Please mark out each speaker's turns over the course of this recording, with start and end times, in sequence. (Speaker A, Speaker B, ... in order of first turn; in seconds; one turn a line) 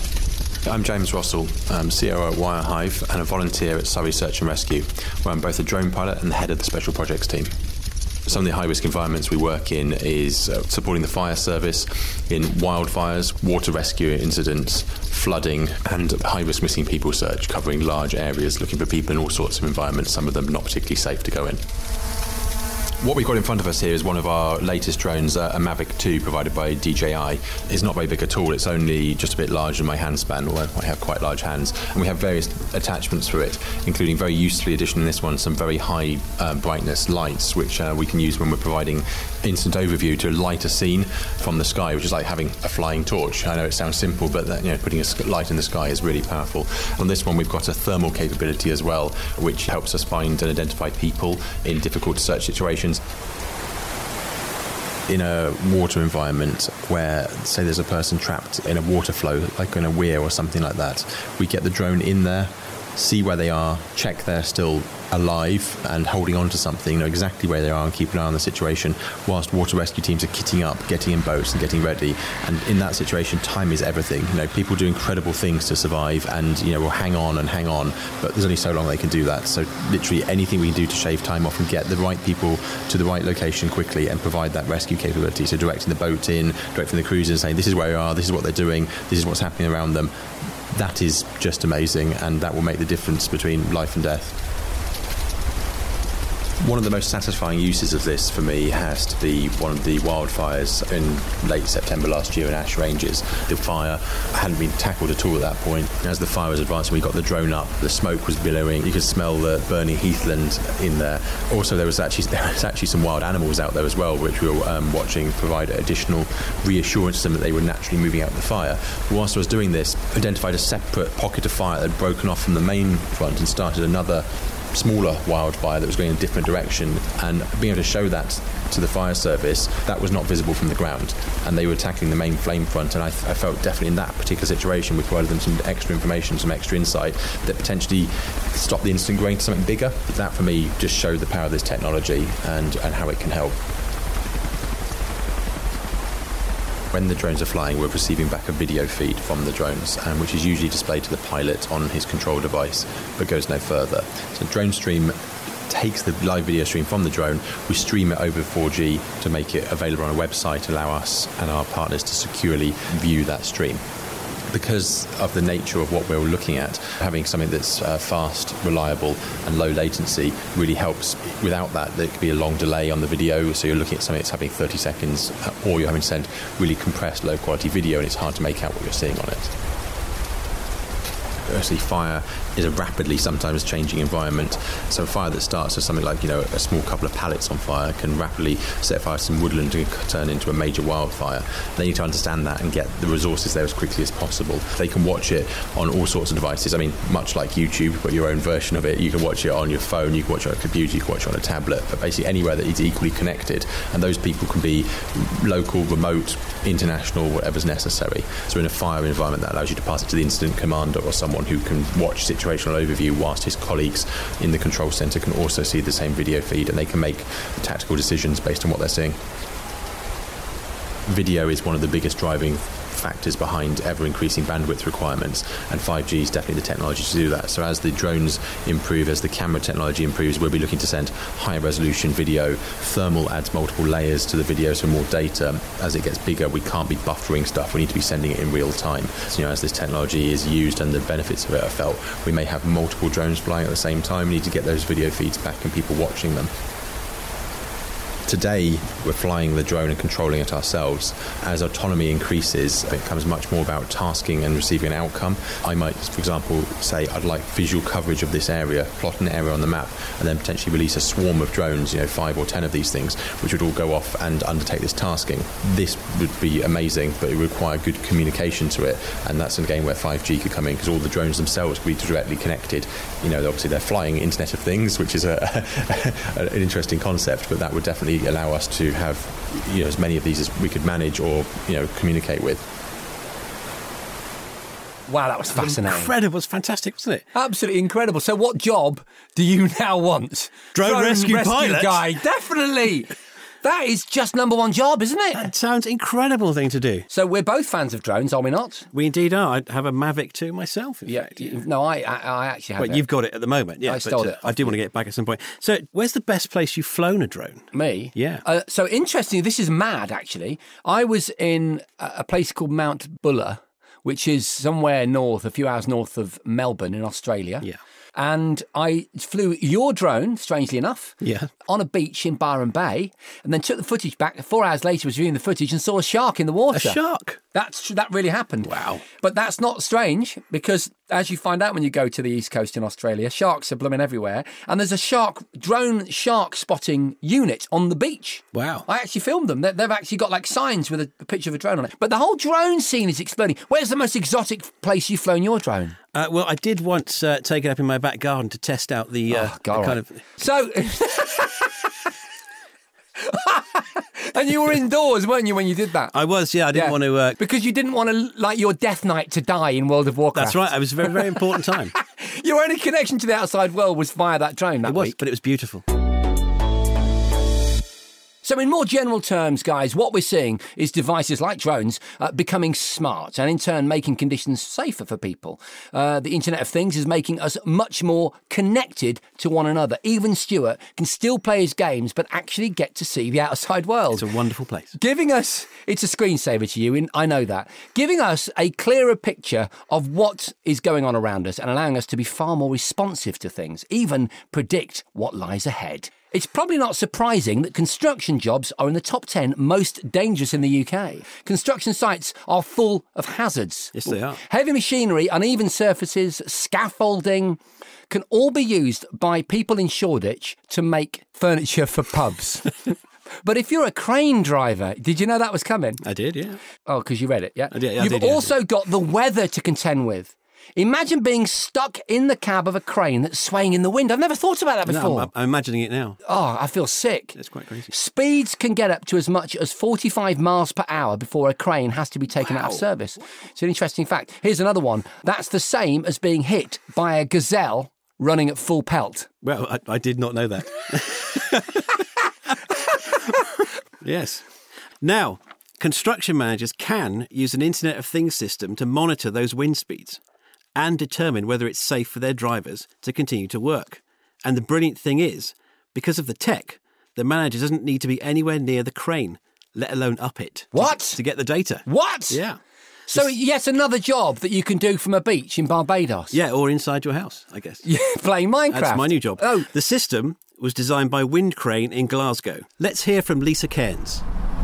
Speaker A: 0.7-7.5
Speaker A: 8.2-21.6
Speaker A: 23.0-53.0
Speaker A: 55.1-90.1
Speaker A: 90.7-94.4
Speaker A: 96.6-143.6
Speaker A: 146.9-155.1
Speaker A: 155.7-163.8
Speaker A: 164.5-179.5
Speaker A: 181.5-219.2
Speaker A: 221.1-246.5
Speaker A: 248.2-282.6
Speaker B: 285.1-286.1
Speaker C: 285.5-287.2
Speaker B: 287.3-295.5
Speaker C: 290.7-292.0
Speaker C: 295.3-297.1
Speaker B: 297.1-298.9
Speaker C: 298.9-301.6
Speaker B: 301.1-303.1
Speaker C: 302.8-308.4
Speaker B: 303.8-304.8
Speaker B: 307.7-327.0
Speaker C: 321.2-321.5
Speaker C: 326.7-327.4
Speaker B: 327.5-346.0
Speaker C: 328.6-329.0
Speaker C: 338.5-338.8
Speaker C: 346.1-350.2
Speaker B: 349.3-351.9
Speaker B: 353.2-356.1
Speaker C: 356.1-357.4
Speaker B: 356.7-365.2
Speaker C: 360.3-361.9
Speaker C: 364.8-365.8
Speaker B: 368.4-384.2
Speaker C: 384.1-384.9
Speaker B: 384.9-416.0
Speaker C: 403.9-404.4
Speaker C: 416.0-416.6
Speaker B: 416.8-425.3
Speaker C: 417.7-418.5
Speaker C: 424.9-426.2
Speaker B: 426.2-427.4
Speaker C: 427.4-427.9
Speaker B: 427.9-439.3
Speaker C: 432.4-432.8
Speaker C: 439.4-444.4
Speaker C: 445.0-450.2
Speaker C: 450.8-462.6
Speaker B: 460.7-461.2
Speaker B: 461.8-462.4
Speaker B: 463.1-466.4
Speaker C: 466.3-467.8
Speaker B: 467.8-469.7
Speaker C: 468.7-474.2